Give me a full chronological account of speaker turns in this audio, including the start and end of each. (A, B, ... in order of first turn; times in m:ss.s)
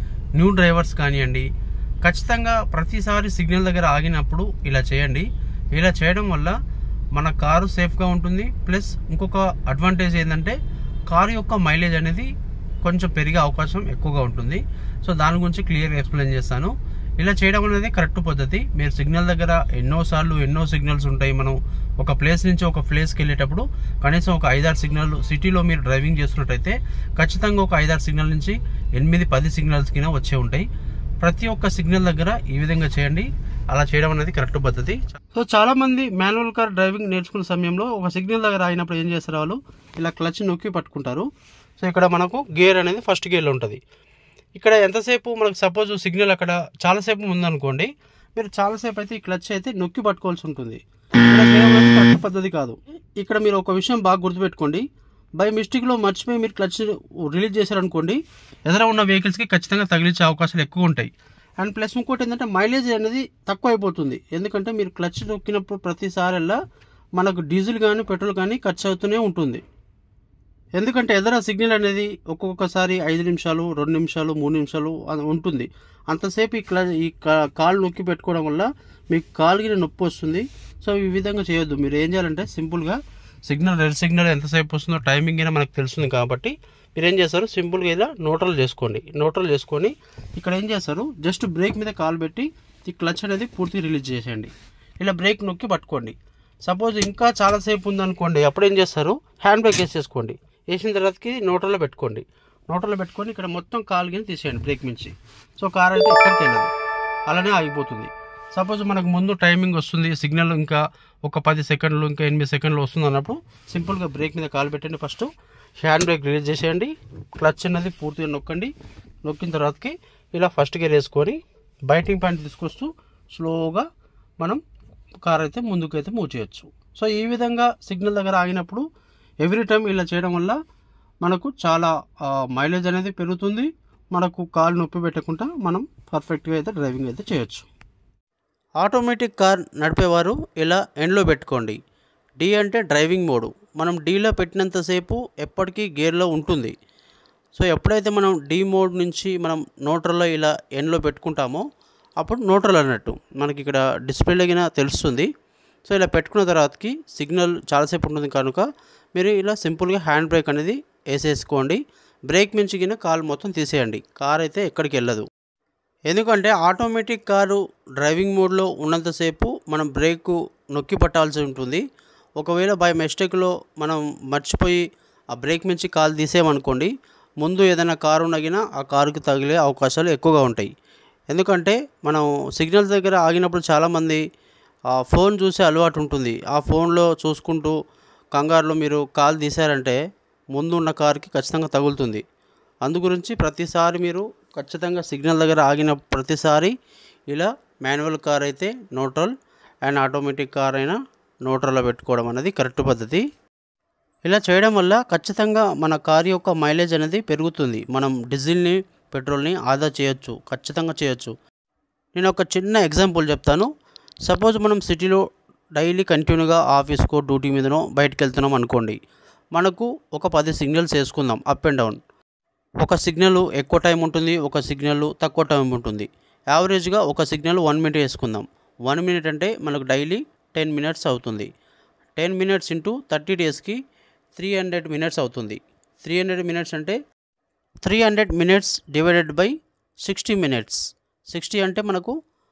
0:00.4-0:01.5 A
0:02.0-0:06.6 A
0:07.2-0:10.6 A
0:11.1-0:12.3 A
0:12.8-0:30.7 A
0:31.2-0:41.3 A
0:41.8-0:43.8 A
0:44.6-0:54.8 A
0:55.4-1:06.6 A
1:07.2-1:09.6 A
1:10.8-1:36.2 A
1:36.7-1:46.7 A
1:47.3-1:55.3 A
1:55.8-1:58.7 A
1:59.2-2:03.9 A
2:05.2-2:08.8 A
2:09.4-2:10.6 A
2:11.2-2:17.7 A
2:18.8-2:21.8 A
2:22.4-2:26.7 A
2:27.6-2:31.6 A
2:32.2-2:35.3 A
2:35.9-2:45.3 A
2:46.1-2:51.8 A
2:52.4-2:54.8 A
2:55.3-2:56.9 A
2:57.4-3:00.7 A
3:01.3-3:04.2 A
3:05.0-3:07.8 A
3:08.4-3:10.0 A
3:10.5-3:12.2 A
3:12.8-3:16.7 A
3:17.3-3:19.3 A
3:19.9-3:23.2 A
3:24.2-3:31.3 A
3:32.2-3:33.7 A
3:34.3-3:35.2 A
3:35.8-3:39.0 A
3:39.6-3:42.0 A
3:42.8-3:51.5 A
3:52.2-3:53.8 A
3:54.4-3:57.0 A
3:57.8-3:59.5 A
4:00.0-4:02.2 A